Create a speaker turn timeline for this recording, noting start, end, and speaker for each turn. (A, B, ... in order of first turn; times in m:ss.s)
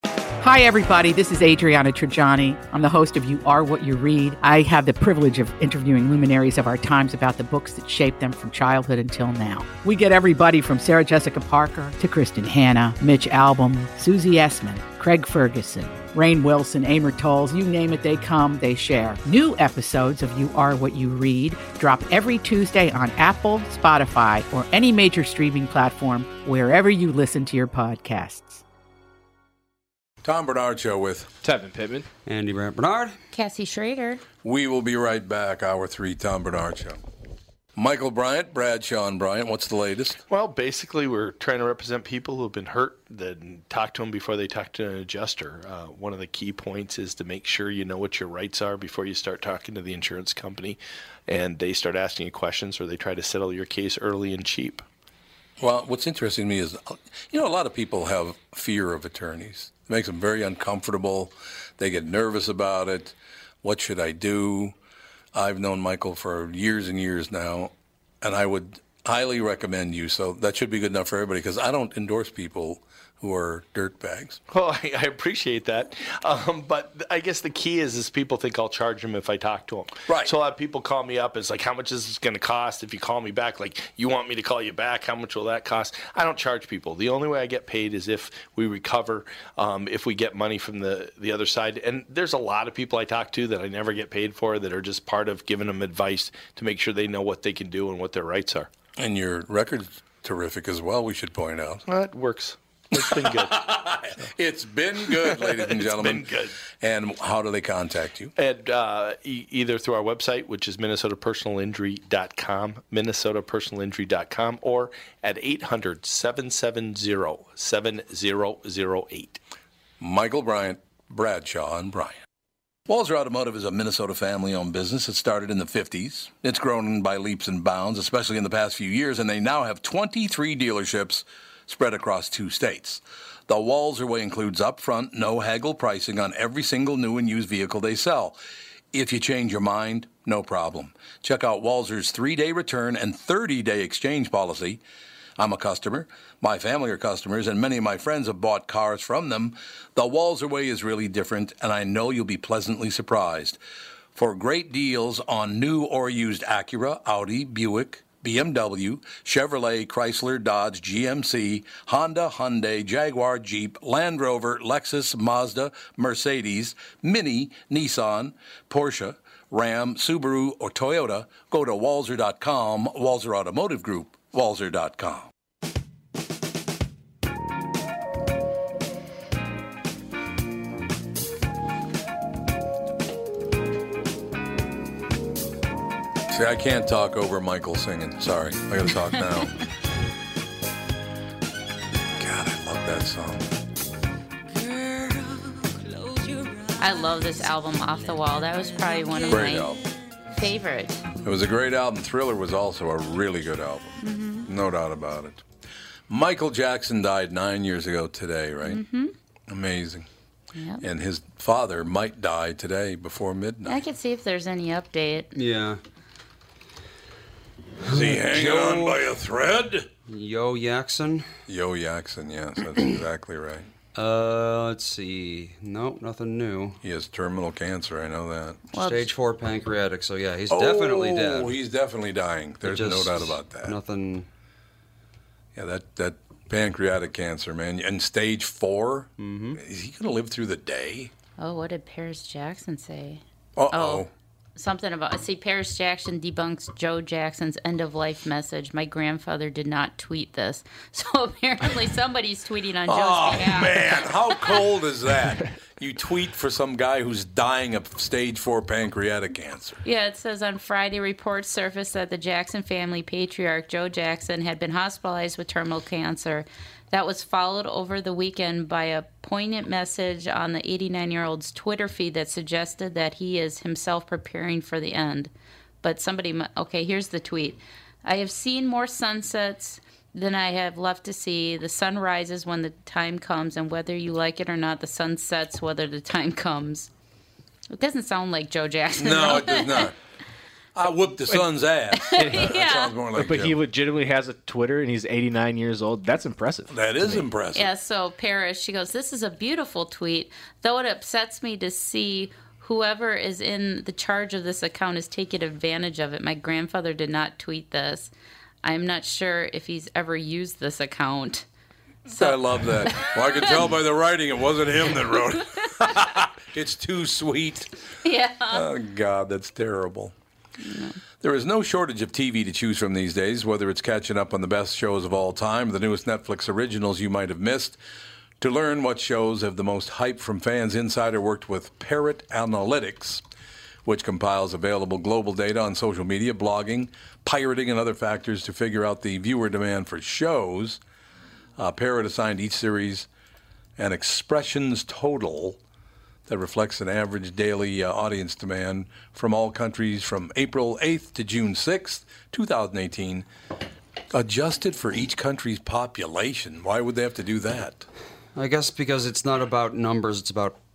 0:00.4-0:28.6 A
0:30.2-0:31.3 B
0:31.4-0:32.1 C
0:32.2-0:33.2 D
0:33.3-0:34.2 E
0:34.4-0:37.0 B
0:37.8-0:40.2 B
0:40.3-0:54.8 F
0:55.6-1:04.7 B
1:05.3-1:14.4 B
1:14.5-1:38.7 F
1:20.1-1:20.3 B
1:39.0-1:41.8 B
1:41.9-1:43.7 F
1:42.9-1:48.3 B
1:45.1-1:46.5 F
1:48.4-1:59.4 F
2:00.0-2:02.2 B
2:02.9-2:18.4 B
2:18.9-2:24.8 B
2:25.4-2:33.6 B
2:34.1-2:55.3 B
3:06.3-3:09.6 B
3:12.2-3:13.5 B
3:16.8-3:19.7 E
3:19.3-3:19.8 B
3:20.3-3:21.0 E
3:21.2-3:25.4 B
3:26.1-3:28.8 B
3:28.6-3:29.1 E
3:29.5-3:30.1 B
3:30.5-3:30.8 E
3:30.8-3:33.8 B
3:33.6-3:35.3 E
3:35.3-3:35.8 D
3:37.8-3:39.0 D
3:37.8-3:39.9 B
3:40.1-3:41.3 D
3:41.5-3:43.7 B
3:43.9-3:46.8 D
3:46.8-3:48.6 B
3:48.7-3:49.1 E
3:48.7-3:51.5 D
3:50.5-3:53.8 B
3:52.6-3:54.3 D
3:55.5-4:01.1 B
3:59.2-3:59.6 D
4:01.4-4:14.6 E
4:03.6-4:04.1 B
4:12.8-4:19.8 B
4:19.8-4:35.3 E
4:35.8-4:46.9 E
4:47.7-4:49.9 E
4:49.0-4:49.9 B
4:50.7-4:53.6 B
4:52.1-4:53.0 E
4:52.2-4:52.5 C
4:53.1-4:57.2 C
4:56.7-4:57.7 B
4:57.5-5:08.1 E
5:08.6-5:11.4 E
5:12.1-5:13.6 E
5:12.2-5:17.7 B
5:15.5-5:15.8 E
5:18.0-5:18.6 E
5:18.5-5:20.1 B
5:20.6-5:21.0 E
5:21.2-5:27.8 B
5:28.4-5:33.2 B
5:33.8-5:40.8 B
5:41.6-5:43.1 B
5:43.8-5:45.6 B
5:46.3-5:53.3 B
5:54.1-5:57.9 B
5:58.4-6:00.6 D